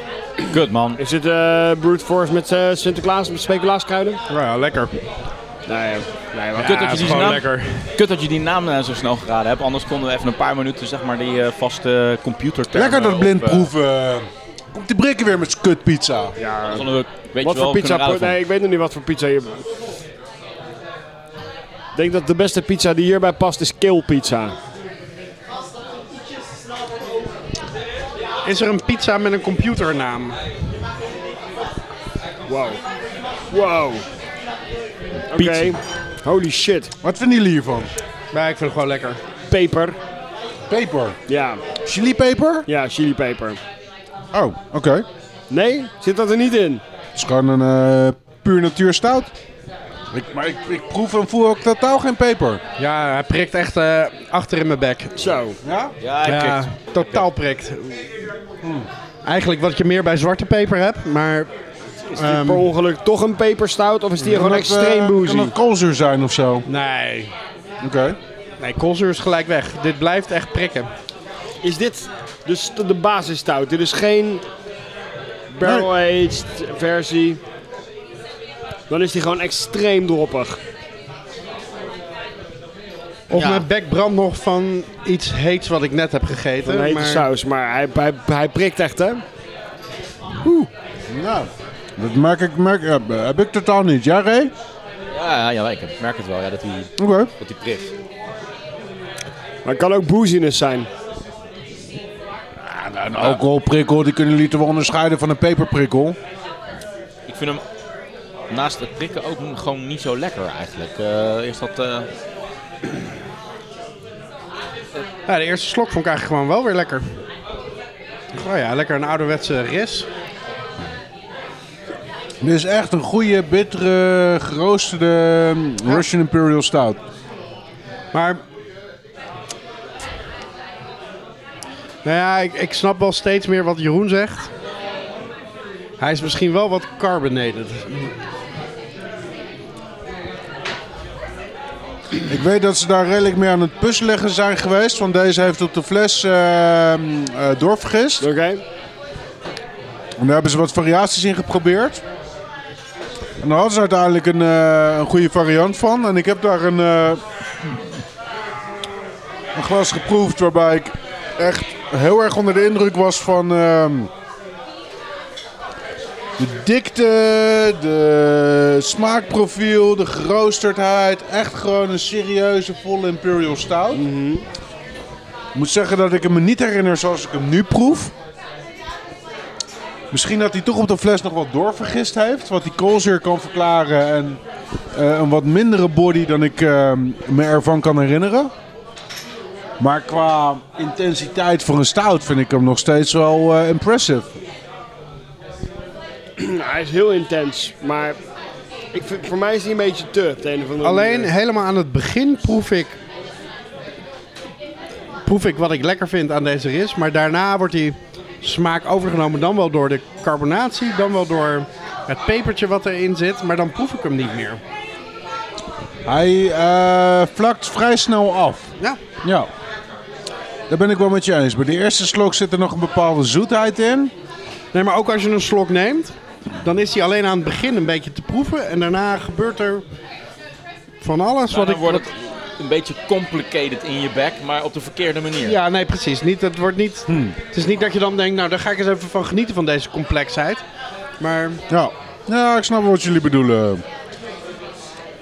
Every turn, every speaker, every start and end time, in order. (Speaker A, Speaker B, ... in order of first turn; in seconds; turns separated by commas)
Speaker A: 0.5-1.0, Speaker B: 1.0-4.2, Speaker C: 4.3-5.0, Speaker B: 5.7-7.3, Speaker C: 6.6-7.9, Speaker A: 6.6-13.7, Speaker D: 12.7-16.4, Speaker B: 16.4-16.9, Speaker A: 16.7-18.4, Speaker B: 17.4-19.6, Speaker B: 21.9-24.6, Speaker C: 28.4-30.4, Speaker B: 32.5-32.8, Speaker B: 33.5-34.0, Speaker A: 35.3-35.8, Speaker B: 35.3-36.9, Speaker D: 37.0-37.9, Speaker C: 38.3-39.2, Speaker B: 39.5-40.0, Speaker D: 40.7-41.2, Speaker B: 41.3-41.6, Speaker D: 41.8-42.7, Speaker B: 42.7-43.6, Speaker D: 44.3-45.1, Speaker B: 45.5-46.8, Speaker D: 47.1-49.3, Speaker D: 50.1-52.6, Speaker C: 52.8-55.3, Speaker B: 55.2-55.6, Speaker D: 55.6-56.0, Speaker A: 56.0-57.3, Speaker C: 56.2-58.1, Speaker D: 58.6-58.9, Speaker C: 59.2-61.5, Speaker C: 62.1-62.7, Speaker B: 62.2-65.5, Speaker D: 64.2-66.7, Speaker C: 66.7-67.3, Speaker D: 67.8-68.2, Speaker C: 68.6-70.9, Speaker B: 71.6-74.4, Speaker B: 75.5-77.4, Speaker B: 78.9-80.6, Speaker C: 83.3-87.2, Speaker A: 83.3-83.7, Speaker B: 86.6-89.2, Speaker B: 90.4-90.7, Speaker D: 91.1-94.5, Speaker A: 95.1-97.9, Speaker D: 97.0-97.3, Speaker B: 99.7-100.9, Speaker D: 102.6-106.2, Speaker A: 107.3-107.6, Speaker A: 108.5-112.1, Speaker C: 115.3-117.1, Speaker C: 118.3-120.1, Speaker D: 122.4-127.0, Speaker C: 128.1-128.4, Speaker C: 132.0-134.5, Speaker C: 136.0-138.1, Speaker D: 142.3-148.3, Speaker B: 148.2-148.6, Speaker D: 150.2-152.0, Speaker D: 153.4-157.2, Speaker D: 159.6-164.1, Speaker D: 166.4-174.0, Speaker B: 173.9-174.5, Speaker D: 175.6-178.1, Speaker D: 180.1-184.4, Speaker D: 184.9-188.5, Speaker D: 189.8-194.3, Speaker B: 196.4-198.2, Speaker B: 198.9-201.3, Speaker C: 200.8-203.0, Speaker C: 205.2-214.6, Speaker D: 216.1-219.5, Speaker D: 220.7-224.1, Speaker C: 224.7-229.8, Speaker C: 231.0-232.1, Speaker A: 231.5-235.6, Speaker C: 235.4-240.6, Speaker D: 237.1-237.4, Speaker C: 241.2-241.6, Speaker D: 241.7-243.8